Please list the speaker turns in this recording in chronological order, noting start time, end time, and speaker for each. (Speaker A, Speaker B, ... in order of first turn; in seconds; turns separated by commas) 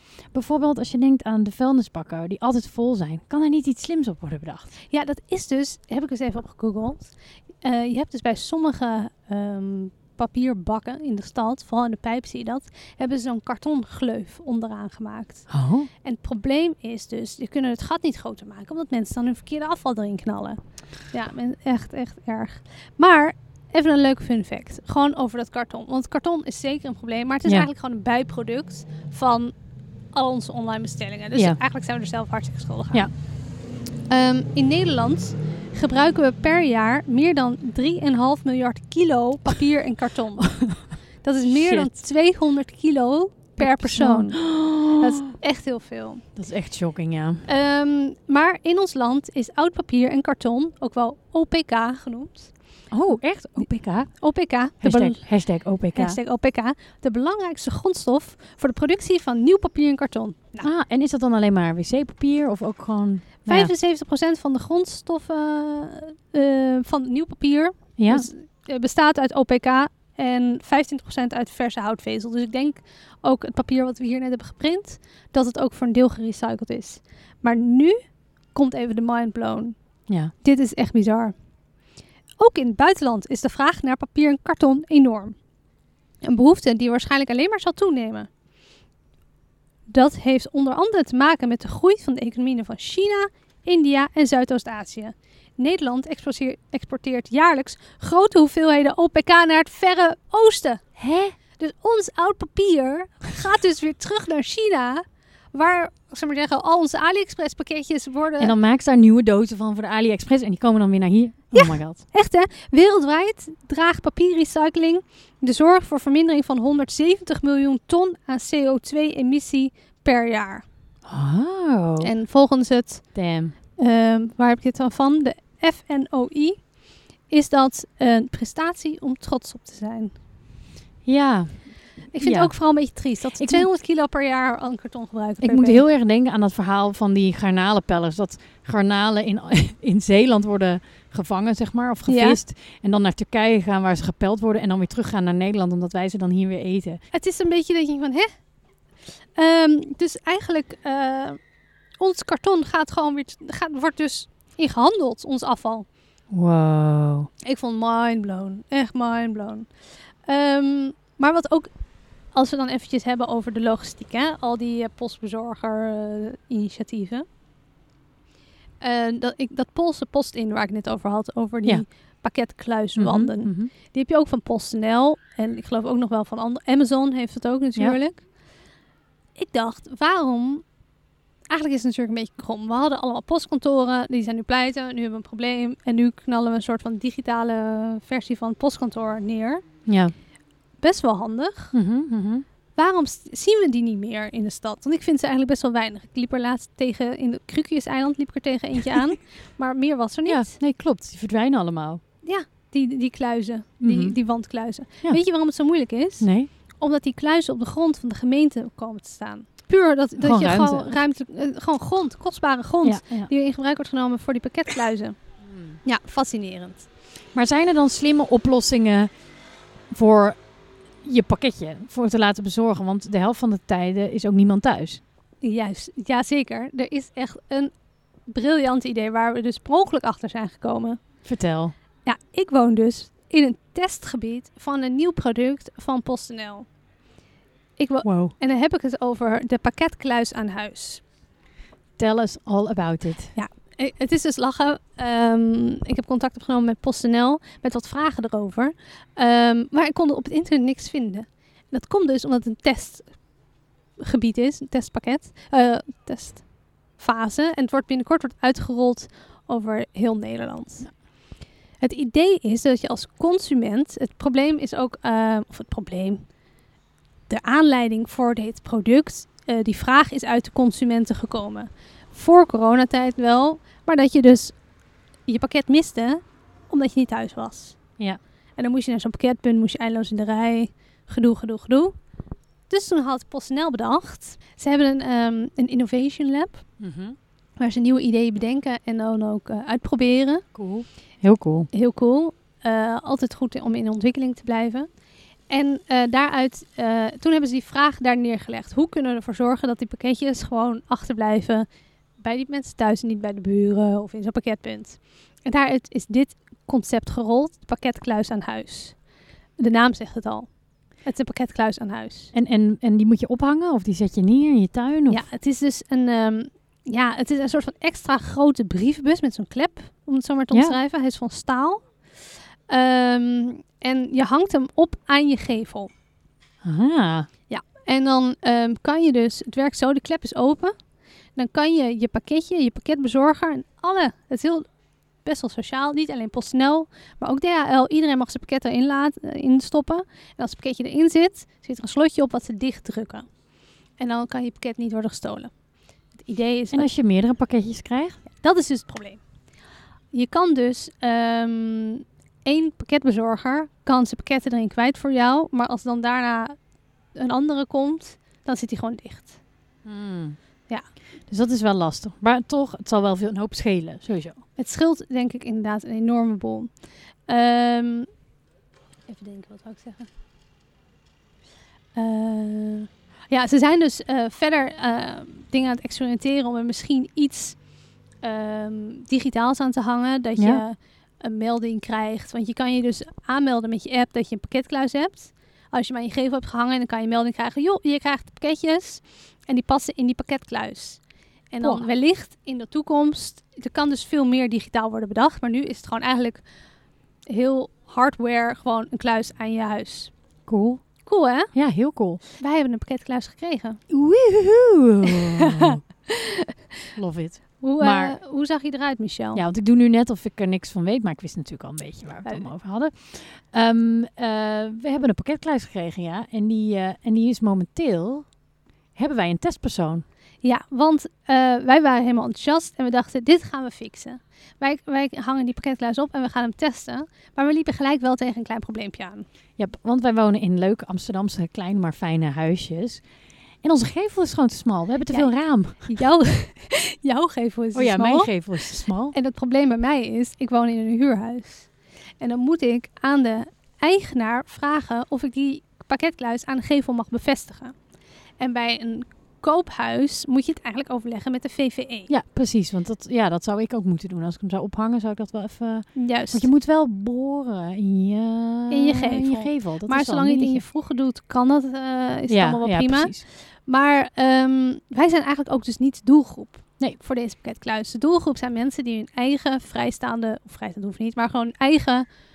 Speaker A: 0.3-4.7, Speaker B: 4.9-15.5, Speaker A: 15.5-15.9, Speaker B: 16.0-29.5, Speaker B: 30.1-33.1, Speaker A: 31.3-31.6, Speaker B: 34.1-40.7, Speaker A: 40.5-40.8, Speaker B: 41.2-46.2, Speaker A: 41.5-41.9, Speaker A: 43.6-45.3, Speaker A: 46.4-47.5, Speaker B: 47.5-52.5, Speaker A: 52.9-54.2, Speaker B: 53.6-55.3, Speaker A: 54.8-56.2, Speaker B: 55.9-60.7, Speaker A: 60.6-63.7, Speaker B: 63.5-78.0, Speaker A: 68.0-68.3, Speaker B: 78.5-79.8, Speaker B: 80.4-81.3, Speaker B: 82.4-85.3, Speaker B: 86.2-88.3, Speaker B: 89.9-100.8, Speaker A: 101.0-101.3, Speaker B: 101.6-108.5, Speaker A: 108.4-112.0, Speaker B: 111.5-120.6, Speaker A: 121.0-122.1, Speaker B: 122.0-123.1, Speaker A: 123.1-123.5, Speaker B: 123.8-126.6, Speaker B: 127.3-130.1, Speaker A: 131.1-132.5, Speaker B: 132.1-135.8, Speaker A: 133.4-133.7, Speaker A: 135.4-147.0, Speaker B: 142.1-142.4, Speaker B: 147.1-148.3, Speaker B: 149.3-151.4, Speaker B: 152.0-155.8, Speaker A: 156.3-157.3, Speaker B: 157.4-159.7, Speaker B: 160.2-161.7, Speaker B: 162.3-167.2, Speaker B: 168.8-178.2, Speaker A: 173.0-173.7, Speaker B: 179.3-180.6, Speaker B: 181.5-189.6, Speaker A: 189.8-190.1, Speaker B: 190.8-191.7, Speaker A: 191.7-192.4, Speaker B: 192.8-200.5, Speaker A: 200.2-202.0, Speaker B: 202.2-206.3, Speaker A: 203.8-204.2, Speaker A: 206.2-206.5, Speaker B: 206.8-215.2, Speaker A: 210.2-211.0, Speaker A: 212.8-213.3, Speaker A: 215.4-215.8, Speaker B: 215.8-216.9, Speaker A: 217.3-219.1, Speaker A: 219.9-220.4, Speaker A: 221.0-225.0, Speaker B: 225.4-227.7, Speaker B: 228.3-231.0, Speaker A: 231.2-231.7, Speaker B: 232.0-236.7, Speaker B: 237.8-241.0, Speaker A: 238.0-238.3, Speaker A: 242.0-243.3, Speaker B: 243.3-253.2, Speaker B: 254.0-256.4, Speaker B: 256.9-260.9, Speaker B: 261.8-266.2, Speaker B: 267.3-274.5, Speaker B: 275.3-277.8, Speaker B: 278.6-281.9, Speaker B: 282.7-286.6, Speaker A: 286.8-287.2, Speaker B: 287.6-290.4, Speaker A: 290.5-291.7, Speaker B: 291.7-294.9, Speaker B: 295.5-301.7, Speaker B: 302.2-309.0, Speaker B: 309.6-310.5, Speaker B: 311.0-312.3, Speaker A: 312.3-315.2, Speaker B: 315.1-321.9, Speaker A: 320.5-320.8, Speaker B: 322.7-325.9, Speaker A: 326.6-327.3, Speaker B: 327.5-330.7, Speaker B: 331.4-334.6, Speaker B: 335.2-343.3, Speaker B: 344.0-345.5, Speaker B: 346.2-346.9, Speaker A: 346.7-348.2, Speaker B: 348.3-349.2, Speaker B: 350.1-356.6, Speaker B: 357.1-359.4, Speaker A: 359.8-360.4, Speaker A: 361.3-364.4, Speaker B: 364.6-366.7, Speaker B: 367.3-368.1, Speaker B: 369.1-370.1, Speaker B: 371.9-377.6, Speaker B: 378.2-391.0, Speaker A: 380.4-380.6, Speaker B: 391.5-396.4, Speaker A: 391.6-391.9, Speaker B: 397.3-400.1, Speaker A: 400.5-400.8, Speaker B: 401.0-401.5, Speaker A: 401.5-402.2, Speaker B: 402.4-403.8, Speaker A: 403.9-405.8, Speaker B: 405.1-406.5, Speaker A: 406.9-408.2, Speaker B: 407.6-409.4, Speaker A: 409.3-418.3, Speaker A: 418.9-420.0, Speaker B: 420.4-429.2, Speaker A: 429.6-433.0, Speaker A: 433.6-435.9, Speaker B: 435.1-447.7, Speaker A: 437.7-439.1, Speaker B: 448.4-452.1, Speaker A: 452.1-460.6, Speaker B: 455.9-456.5, Speaker B: 458.7-472.1, Speaker A: 462.3-463.2